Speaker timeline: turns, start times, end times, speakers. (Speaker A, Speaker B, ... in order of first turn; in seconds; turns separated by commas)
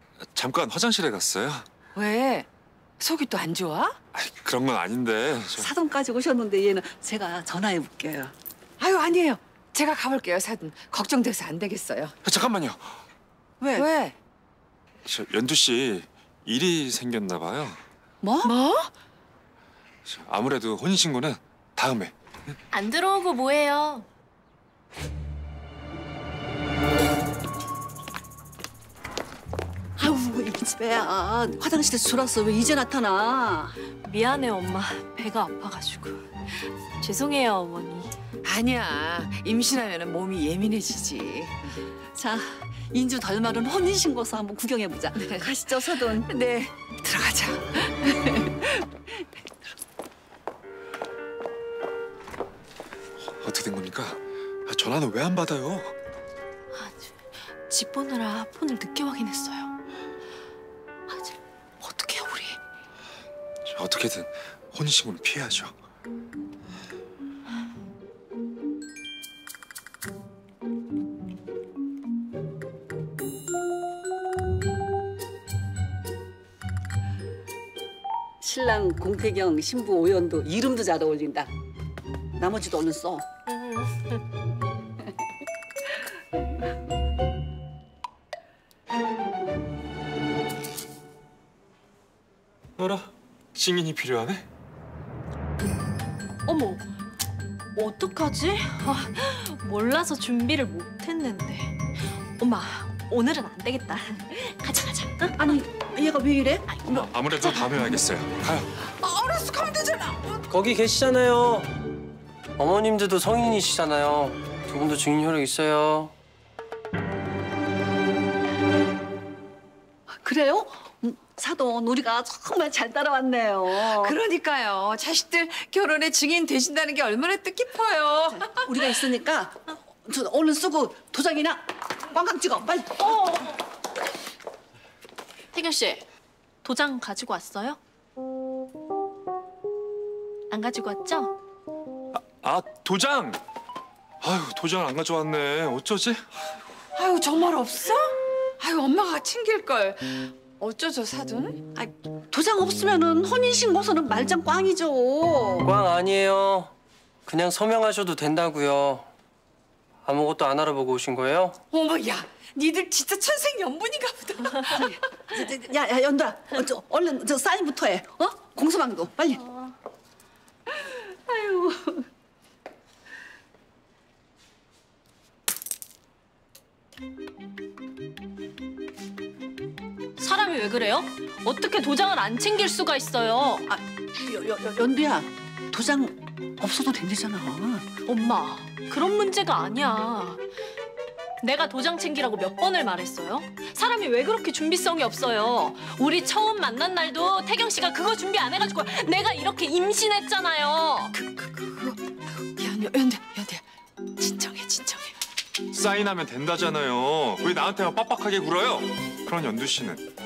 Speaker A: 0.3-1.6, Speaker B: 1.9-2.5, Speaker B: 3.0-4.0, Speaker A: 4.1-5.7, Speaker C: 5.5-8.3, Speaker B: 8.8-12.1, Speaker A: 12.2-12.9, Speaker C: 13.6-13.9, Speaker B: 13.8-14.1, Speaker A: 15.1-17.8, Speaker C: 18.2-18.5, Speaker B: 18.4-18.9, Speaker A: 20.0-22.1, Speaker D: 22.7-24.1, Speaker C: 30.0-33.8, Speaker D: 34.0-38.1, Speaker B: 38.4-41.7, Speaker C: 42.1-46.3, Speaker B: 45.2-48.6, Speaker A: 53.4-55.9, Speaker D: 56.7-57.1, Speaker D: 57.7-59.7, Speaker D: 61.1-62.6, Speaker A: 63.7-65.7, Speaker C: 78.4-81.5, Speaker C: 82.4-83.2, Speaker D: 83.5-84.2, Speaker A: 92.8-94.4, Speaker D: 96.5-96.8, Speaker D: 97.7-101.8, Speaker D: 102.4-105.4, Speaker C: 105.4-107.1, Speaker A: 106.9-108.7, Speaker B: 108.8-110.5, Speaker E: 110.5-111.7, Speaker E: 112.6-116.1, Speaker C: 120.1-124.2, Speaker B: 123.7-128.7, Speaker C: 128.4-133.4, Speaker D: 133.0-133.6, Speaker D: 135.5-136.1, Speaker D: 136.6-137.8, Speaker D: 140.5-141.3, Speaker A: 142.1-143.4, Speaker A: 144.2-146.3, Speaker B: 146.9-151.7, Speaker C: 151.8-155.7, Speaker E: 155.6-156.7, Speaker E: 157.2-159.1, Speaker E: 160.0-161.6, Speaker B: 161.7-164.9, Speaker C: 164.7-169.6, Speaker C: 170.8-172.0, Speaker D: 180.2-183.7, Speaker C: 183.7-187.9, Speaker D: 188.0-190.4, Speaker D: 191.4-201.1, Speaker B: 201.1-203.6, Speaker B: 204.2-205.1, Speaker A: 205.7-210.0